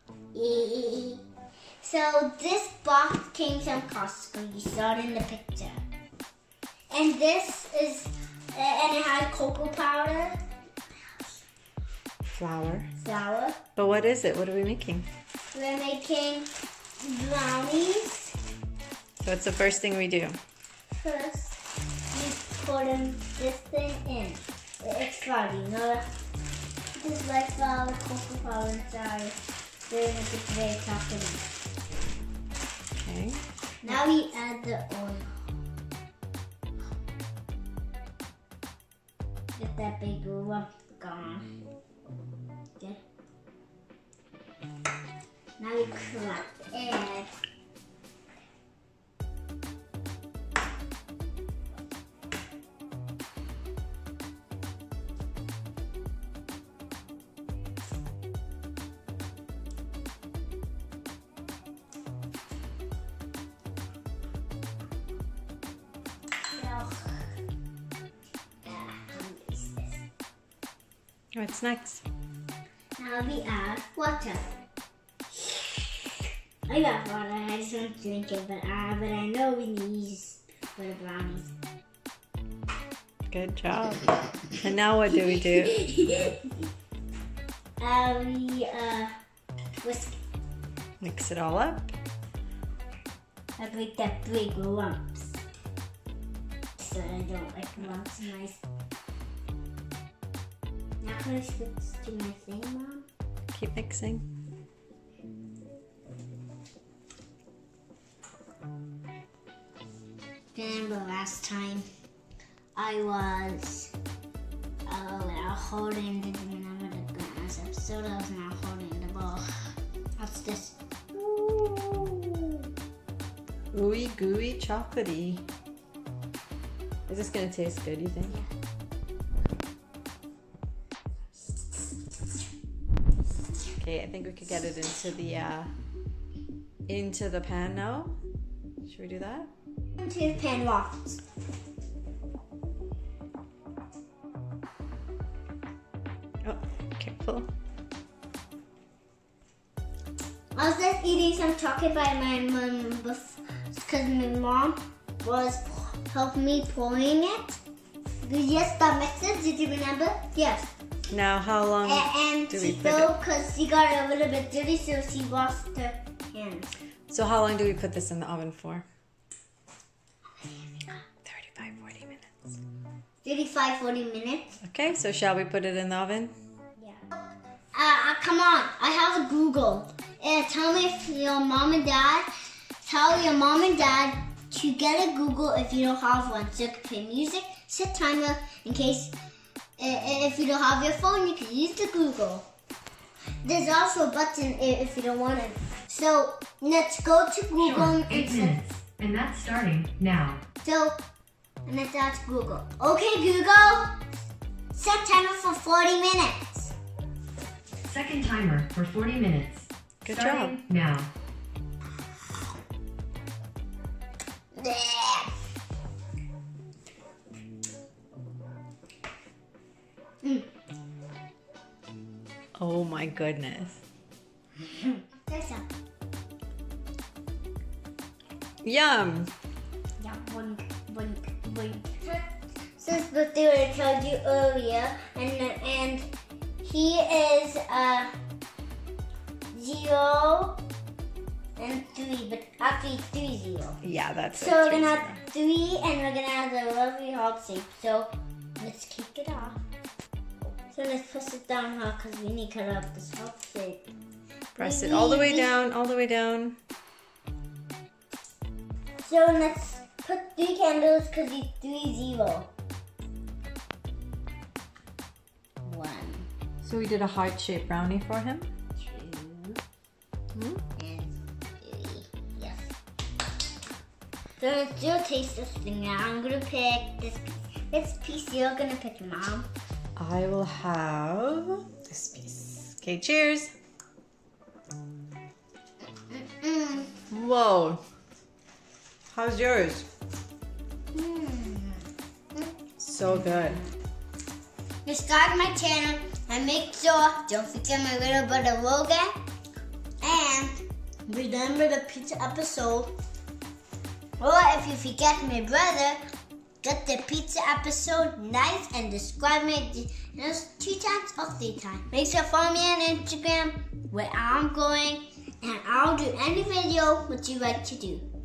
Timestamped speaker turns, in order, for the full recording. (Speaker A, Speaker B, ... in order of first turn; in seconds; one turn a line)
Speaker A: 0.3-1.2
Speaker A: 1.8-5.8
Speaker A: 6.9-10.4
Speaker B: 12.3-12.9
Speaker A: 13.0-13.6
Speaker B: 13.8-15.1
Speaker A: 15.5-18.3
Speaker B: 19.2-20.4
Speaker A: 20.9-26.0
Speaker A: 26.9-29.4
Speaker A: 29.9-31.5
Speaker B: 33.0-33.4
Speaker A: 33.8-35.3
Speaker A: 39.5-41.5
Speaker A: 45.6-47.3
Speaker A: 66.4-67.3
Speaker A: 68.6-70.0
Speaker B: 71.3-72.0
Speaker A: 73.0-74.5
Speaker A: 76.7-81.5
Speaker B: 83.3-85.8
Speaker A: 85.1-86.5
Speaker A: 87.8-89.1
Speaker A: 89.8-90.2
Speaker B: 91.0-91.9
Speaker A: 93.6-95.4
Speaker A: 96.8-98.6
Speaker A: 101.0-103.0
Speaker B: 103.5-104.2
Speaker A: 110.5-111.8
Speaker A: 112.7-113.9
Speaker A: 114.8-119.5
Speaker A: 120.2-120.8
Speaker B: 121.1-122.5
Speaker B: 123.7-125.4
Speaker B: 127.1-128.4
Speaker B: 133.8-135.7
Speaker B: 136.9-138.2
Speaker B: 138.8-139.5
Speaker A: 140.0-141.2
Speaker B: 146.4-147.5
Speaker A: 150.5-157.6
Speaker A: 158.2-160.7
Speaker B: 161.1-163.1
Speaker A: 161.8-166.7
Speaker B: 167.1-168.8
Speaker B: 171.2-172.6
Speaker A: 173.2-174.6
Speaker B: 174.6-176.3
Speaker A: 176.8-177.1
Speaker A: 177.7-182.2
Speaker A: 182.8-189.1
Speaker A: 189.8-192.4
Speaker A: 193.4-198.6
Speaker C: 197.6-200.4
Speaker A: 200.6-200.9
Speaker A: 201.7-204.0
Speaker A: 204.7-206.7
Speaker C: 207.8-211.1
Speaker B: 210.0-210.6
Speaker A: 214.5-215.3
Speaker A: 220.2-220.5
Speaker B: 222.6-223.8
Speaker A: 224.7-225.7
Speaker B: 228.6-229.3
Speaker A: 230.0-236.0
Speaker A: 236.6-238.1
Speaker A: 239.5-240.6
Speaker A: 241.6-243.8
Speaker B: 243.8-245.2
Speaker A: 244.3-249.6
Speaker A: 250.7-253.9
Speaker B: 254.5-256.6
Speaker A: 254.6-255.6
Speaker A: 259.0-262.5
Speaker A: 265.6-266.3
Speaker B: 266.6-268.5
Speaker A: 268.8-269.6
Speaker B: 270.3-270.6
Speaker A: 270.8-272.7
Speaker A: 274.4-279.5
Speaker B: 279.9-283.5
Speaker A: 285.9-286.9
Speaker B: 287.1-287.8
Speaker B: 289.1-289.9
Speaker A: 290.9-292.6
Speaker B: 292.8-293.6
Speaker A: 293.2-293.6
Speaker A: 294.8-299.1
Speaker A: 300.0-302.9
Speaker A: 304.2-306.0
Speaker A: 306.6-318.0